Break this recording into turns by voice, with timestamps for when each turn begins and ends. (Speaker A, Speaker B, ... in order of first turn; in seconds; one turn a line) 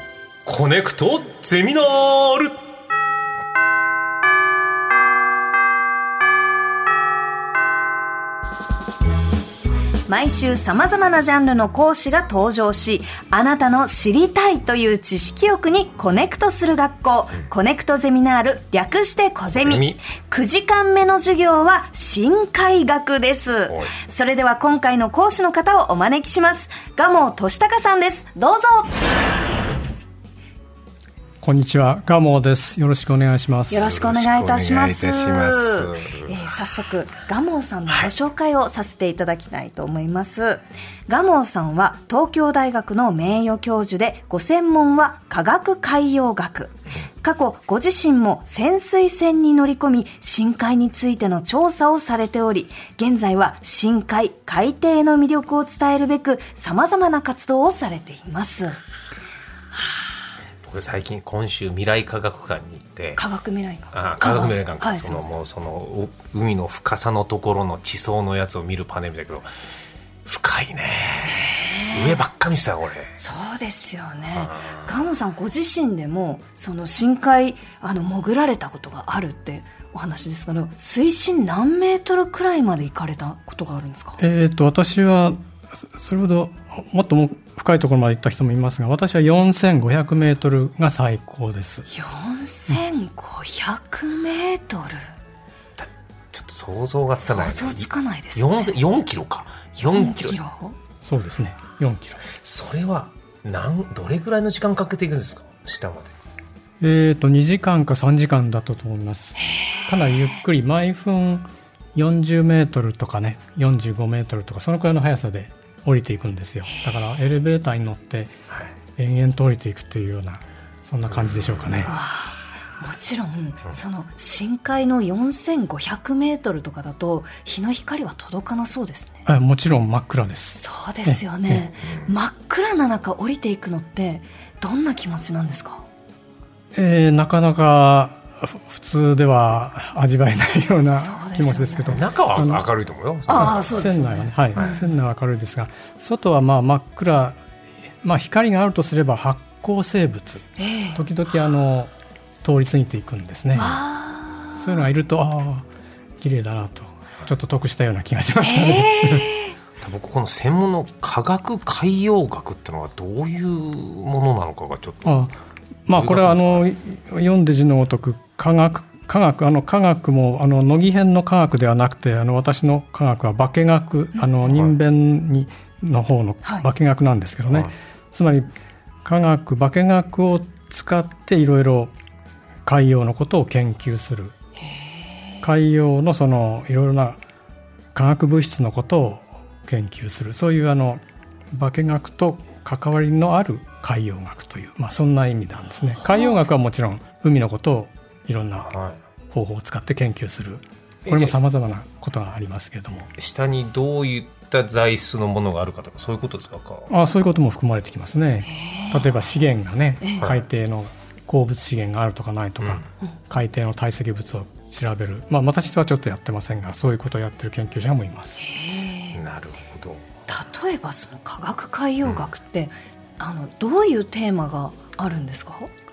Speaker A: 0.5-2.6
Speaker B: 10.1-29.1
Speaker A: 19.6-20.0
Speaker C: 31.4-33.9
Speaker B: 33.7-58.8
Speaker A: 33.8-36.3
Speaker A: 60.6-63.2
Speaker B: 63.2-65.2
Speaker A: 63.9-69.5
Speaker A: 70.2-73.2
Speaker B: 71.3-72.2
Speaker B: 73.2-84.2
Speaker A: 74.3-74.9
Speaker C: 84.2-91.9
Speaker B: 91.9-95.1
Speaker A: 95.8-100.4
Speaker B: 97.2-98.7
Speaker B: 99.9-100.8
Speaker C: 101.0-102.2
Speaker A: 102.3-106.2
Speaker C: 106.8-118.4
Speaker B: 109.5-109.8
Speaker C: 119.0-121.9
Speaker A: 121.3-121.9
Speaker B: 121.9-129.3
Speaker C: 129.3-131.7
Speaker B: 130.6-135.9
Speaker C: 136.7-142.7
Speaker B: 140.9-142.0
Speaker A: 141.9-143.8
Speaker B: 143.3-144.8
Speaker C: 143.3-147.4
Speaker C: 148.0-151.9
Speaker B: 150.6-151.0
Speaker C: 152.4-153.8
Speaker B: 153.6-154.6
Speaker C: 154.6-155.7
Speaker C: 156.2-159.3
Speaker B: 158.4-159.6
Speaker A: 159.8-165.2
Speaker C: 165.1-165.3
Speaker C: 165.9-178.5
Speaker A: 165.9-166.6
Speaker C: 179.0-181.9
Speaker C: 182.7-184.3
Speaker C: 185.4-187.2
Speaker C: 187.9-198.7
Speaker A: 198.7-199.0
Speaker C: 199.3-203.1
Speaker A: 201.1-201.3
Speaker A: 203.2-206.9
Speaker C: 206.9-218.4
Speaker B: 208.5-208.9
Speaker B: 218.4-219.2
Speaker A: 219.1-220.1
Speaker B: 220.3-225.7